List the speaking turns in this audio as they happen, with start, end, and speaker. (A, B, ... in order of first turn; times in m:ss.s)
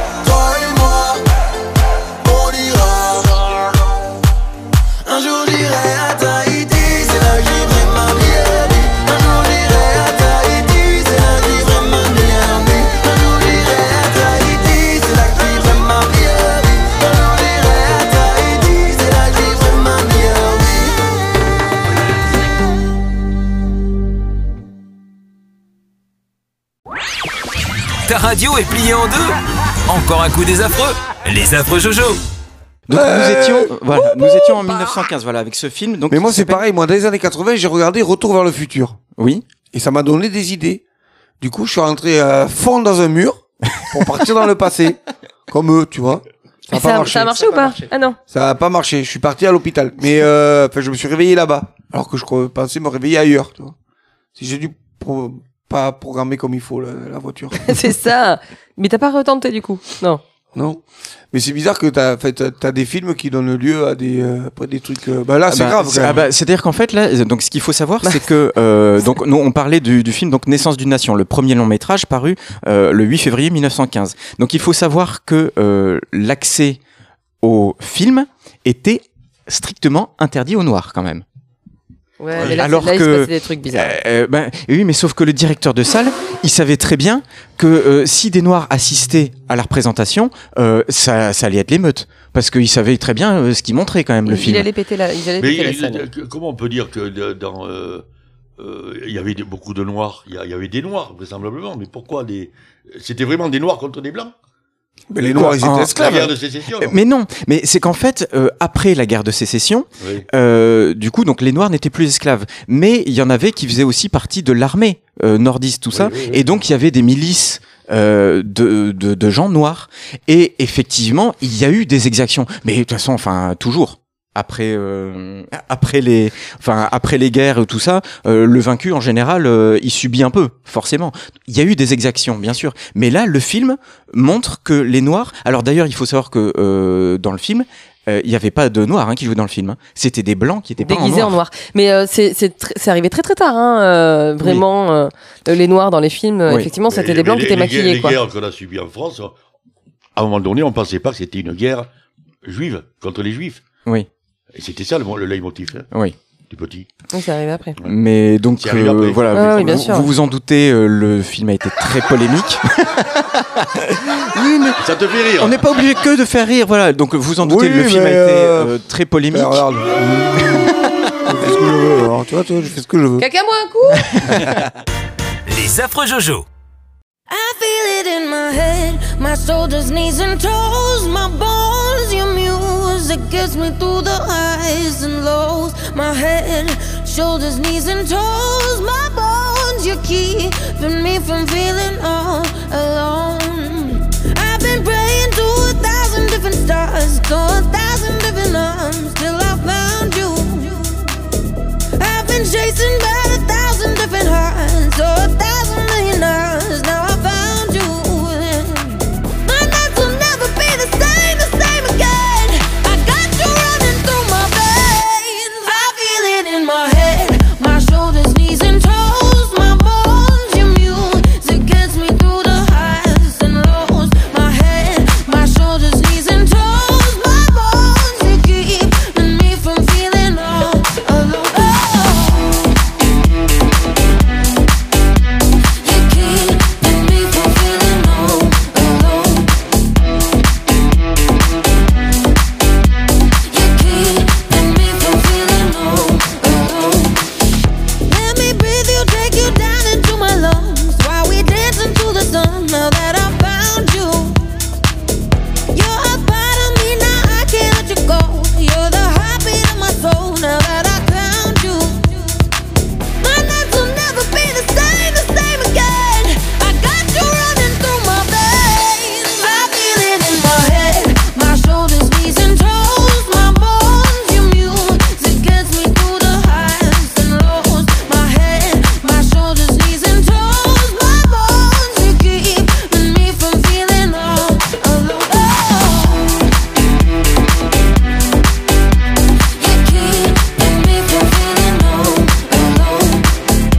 0:00.2-0:01.2 A
0:02.2-0:03.6 A
0:05.0-0:20.9 A
0:28.0-0:29.4 B
0:29.9-0:32.2 B
0:32.9-0:36.6 C
0:32.9-0:34.7 D
0:36.1-0:39.0 D
0:39.2-0:39.4 C
0:39.7-0:40.8 D
0:41.4-0:45.0 D
0:45.5-0:47.5 D
0:46.7-0:48.2 E
0:48.3-0:53.7 D
0:54.4-0:57.6 D
0:57.6-1:00.2 E
1:00.5-1:06.3 D
1:05.5-1:16.8 C
1:17.4-1:21.2 C
1:22.2-1:23.9 E
1:22.4-1:34.7 C
1:34.3-1:36.0 E
1:35.4-1:38.0 F
1:38.6-1:44.3 F
1:45.1-1:46.3 D
1:45.2-1:47.0 F
1:45.4-1:46.1 C
1:46.8-2:21.4 C
1:50.0-1:50.3 F
1:55.9-1:56.5 F
2:20.8-2:28.2 E
2:26.9-2:29.3 F
2:30.2-2:31.9 F
2:32.4-2:33.6 F
2:34.5-2:35.9 F
2:36.5-2:36.9 F
2:37.1-2:37.8 E
2:37.8-2:44.8 C
2:38.6-2:39.9 F
2:39.3-2:40.1 E
2:44.8-2:45.6 F
2:45.4-2:49.6 C
2:47.4-2:48.8 D
2:49.3-2:53.2 D
2:50.4-2:51.3 C
2:53.2-2:54.1 E
2:54.1-2:54.5 C
2:55.5-2:56.4 B
2:57.3-3:21.1 G
3:22.0-3:52.6 G
3:55.8-3:59.6 G
4:03.4-4:07.2 G
4:08.1-4:14.4 G
4:15.7-4:22.4 G
4:23.2-4:46.4 G
4:49.6-4:53.3 G